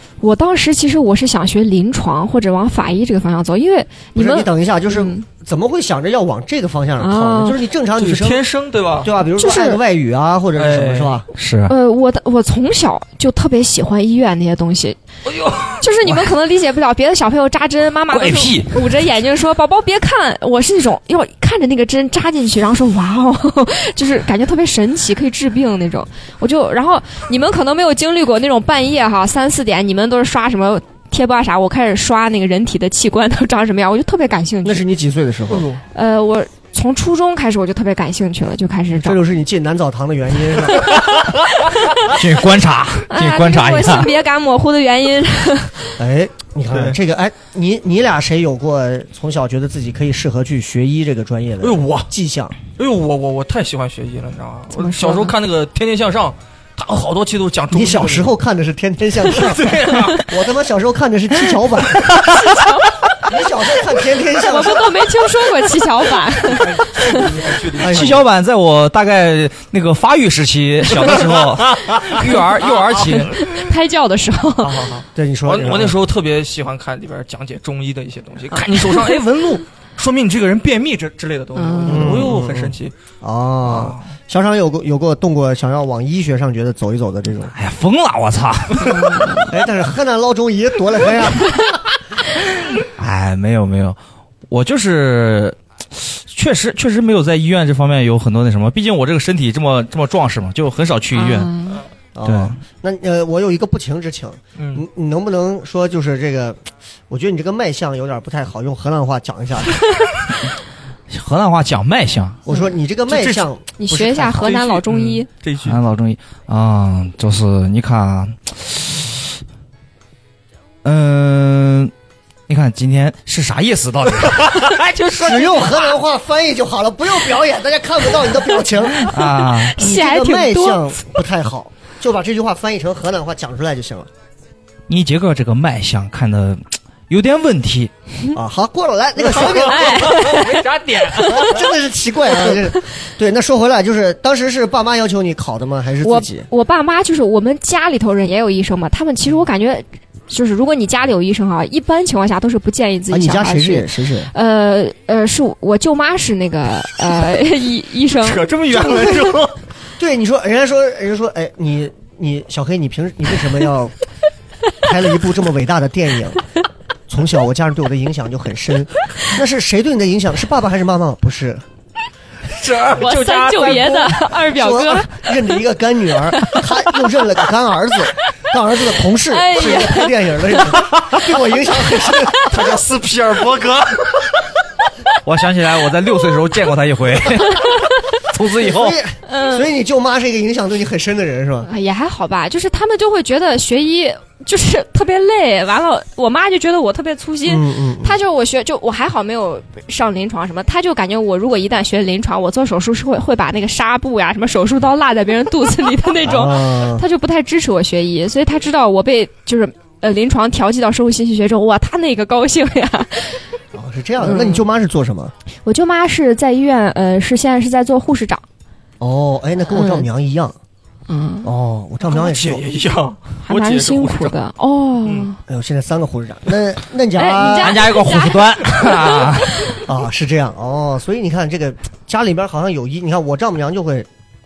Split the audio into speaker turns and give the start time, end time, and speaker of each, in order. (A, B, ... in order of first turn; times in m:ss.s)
0:00.2-0:05.2 A
0:04.1-0:08.4 B
0:07.0-0:07.6 A
0:08.0-0:09.1 C
0:09.0-0:11.3 B
0:09.4-0:09.8 A
0:10.6-0:11.2 C
0:11.4-0:11.7 D
0:11.6-0:15.0 A
0:15.2-0:15.8 C
0:15.8-0:34.8 A
0:18.1-0:18.7 D
0:34.6-0:35.7 B
0:35.5-0:35.8 C
0:35.9-0:39.2 A
0:39.0-0:41.1 B
0:41.2-0:42.1 A
0:42.0-0:44.1 D
0:43.1-0:45.8 A
0:46.0-0:52.6 B
0:46.7-0:47.0 C
0:51.6-0:52.1 C
0:52.8-0:58.3 C
0:54.7-0:55.3 A
0:57.7-1:02.2 B
0:59.3-1:00.3 C
1:02.3-1:02.9 A
1:03.2-1:05.1 B
1:04.4-1:07.3 A
1:06.4-1:08.2 C
1:07.8-1:08.2 B
1:07.8-1:13.4 D
1:10.9-1:13.5 C
1:13.0-1:14.9 A
1:14.6-1:22.9 C
1:15.1-1:16.0 B
1:21.6-1:22.2 A
1:21.9-1:27.5 B
1:23.6-1:24.1 C
1:27.5-1:29.4 D
1:28.8-1:29.4 A
1:29.5-1:31.7 B
1:33.0-1:34.0 D
1:34.5-1:41.5 D
1:41.1-1:41.8 A
1:42.1-1:49.8 B
1:42.2-1:42.6 D
1:44.6-1:44.9 C
1:51.1-1:52.4 D
1:52.4-1:54.6 B
1:53.1-1:53.5 C
1:53.8-1:55.3 A
1:54.4-1:55.8 C
1:55.6-1:59.4 D
2:00.8-2:01.9 D
2:02.5-2:04.6 D
2:04.4-2:06.0 C
2:05.1-2:09.1 B
2:09.0-2:11.0 A
2:09.1-2:09.8 D
2:09.8-2:14.1 B
2:14.9-2:17.9 D
2:18.3-2:20.3 B
2:19.3-2:21.4 C
2:19.5-2:20.6 A
2:21.1-2:26.5 B
2:21.2-2:21.5 A
2:26.0-2:38.4 A
2:33.1-2:34.3 B
2:38.2-2:39.6 C
2:38.8-2:39.1 B
2:40.0-2:43.9 B
2:44.8-2:46.4 B
2:47.1-2:51.6 B
2:52.5-2:54.2 C
2:52.9-2:55.3 A
2:54.5-3:02.8 B
2:56.4-2:56.6 A
2:59.2-3:00.7 A
3:00.8-3:01.1 C
3:02.5-3:04.3 C
3:05.2-3:09.0 D
3:08.6-3:11.7 B
3:09.2-3:09.6 A
3:11.6-3:33.4 A
3:17.4-3:18.2 B
3:26.2-3:27.0 B
3:33.7-3:35.3 B
3:34.2-3:34.6 A
3:35.6-3:38.4 A
3:39.0-3:40.6 B
3:39.7-3:40.1 A
3:41.1-3:41.5 A
3:41.4-3:42.6 B
3:42.0-3:44.3 C
3:43.4-3:45.4 A
3:45.0-3:45.3 C
3:45.5-3:47.9 B
3:47.1-3:49.4 A
3:47.6-3:49.7 D
3:49.8-3:54.1 B